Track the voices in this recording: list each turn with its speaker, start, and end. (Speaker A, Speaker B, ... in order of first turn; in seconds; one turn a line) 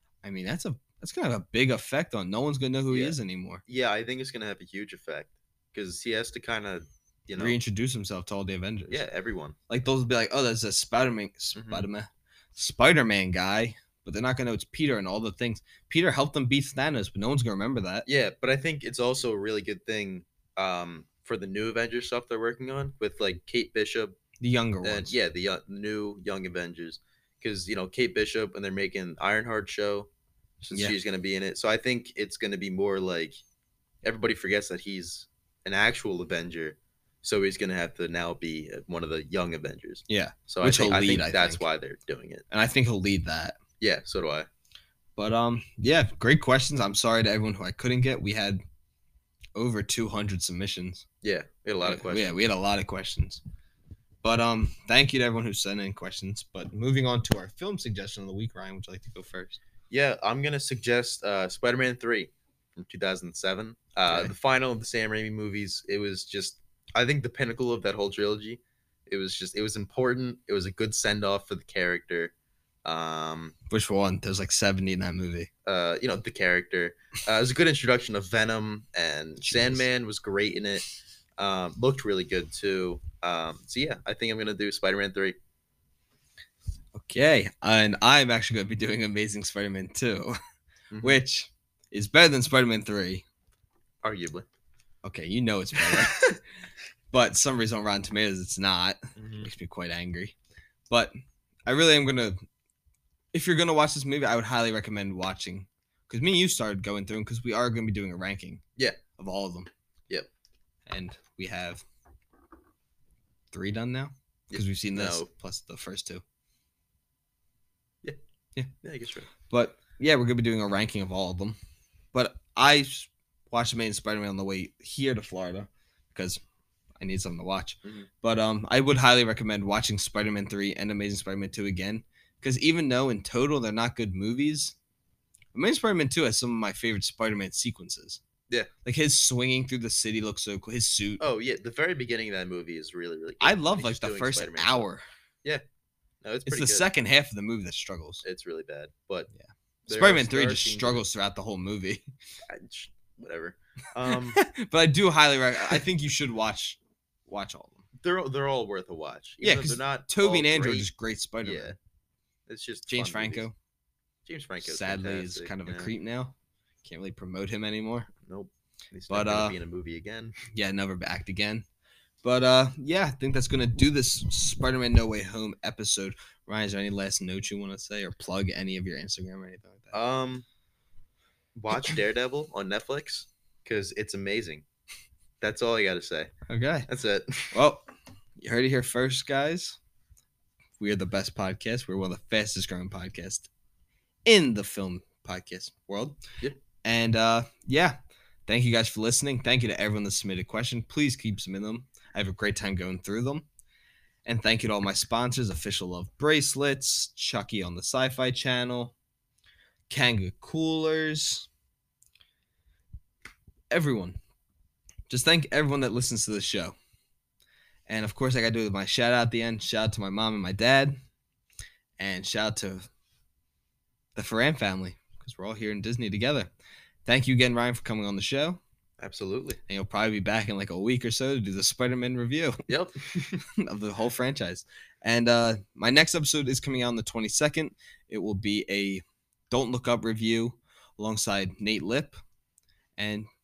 Speaker A: 0.2-3.6
Speaker B: 2.9-7.6
Speaker A: 7.4-9.1
Speaker B: 8.9-9.6
Speaker A: 9.7-18.1
Speaker B: 11.6-11.9
Speaker B: 18.1-24.2
Speaker A: 24.4-25.1
Speaker B: 24.8-30.1
Speaker B: 30.6-33.4
Speaker B: 34.0-42.5
Speaker A: 40.1-41.7
Speaker A: 42.5-43.6
Speaker B: 43.8-44.5
Speaker A: 45.2-48.6
Speaker A: 49.5-51.1
Speaker B: 51.2-52.4
Speaker A: 51.8-53.4
Speaker A: 54.2-59.6
Speaker B: 59.9-72.3
Speaker A: 64.1-64.3
Speaker B: 72.8-73.5
Speaker A: 73.7-75.5
Speaker B: 75.7-80.9
Speaker A: 79.4-79.8
Speaker B: 81.4-85.4
Speaker A: 87.0-90.4
Speaker B: 90.9-91.2
Speaker A: 91.0-93.2
Speaker B: 94.0-94.5
Speaker A: 95.0-96.4
Speaker A: 97.1-100.3
Speaker B: 99.2-99.5
Speaker A: 100.9-101.2
Speaker A: 101.7-102.4
Speaker A: 103.3-108.6
Speaker A: 109.2-109.7
Speaker A: 110.9-111.8
Speaker A: 113.5-116.2
Speaker B: 114.5-115.3
Speaker B: 118.8-119.3
Speaker A: 119.5-121.6
Speaker A: 122.1-126.4
Speaker A: 127.0-134.8
Speaker A: 135.5-138.2
Speaker A: 138.8-141.2
Speaker B: 141.2-144.9
Speaker A: 143.4-145.1
Speaker B: 146.2-146.9
Speaker A: 146.5-148.2
Speaker B: 148.2-149.3
Speaker A: 149.4-152.1
Speaker B: 149.9-151.0
Speaker B: 152.5-154.4
Speaker A: 154.1-157.8
Speaker B: 158.0-160.9
Speaker A: 159.4-161.8
Speaker B: 161.4-161.8
Speaker B: 162.5-163.5
Speaker A: 162.9-163.6
Speaker B: 164.2-165.9
Speaker A: 164.6-168.1
Speaker B: 168.2-170.4
Speaker A: 169.1-169.6
Speaker A: 170.5-171.7
Speaker A: 172.2-179.9
Speaker B: 179.9-180.4
Speaker B: 181.6-184.7
Speaker B: 185.4-186.3
Speaker A: 186.5-186.9
Speaker B: 186.9-187.6
Speaker A: 187.5-187.9
Speaker A: 188.4-189.8
Speaker A: 190.8-193.5
Speaker A: 194.3-196.2
Speaker A: 196.8-203.5
Speaker A: 204.3-208.9
Speaker A: 209.9-211.5
Speaker A: 213.7-214.2
Speaker A: 215.1-216.8
Speaker A: 217.9-221.0
Speaker A: 222.0-222.9
Speaker A: 224.2-226.5
Speaker A: 227.1-228.6
Speaker B: 229.0-229.6
Speaker A: 229.7-232.6
Speaker B: 232.7-233.4
Speaker A: 233.4-242.2
Speaker A: 243.0-243.3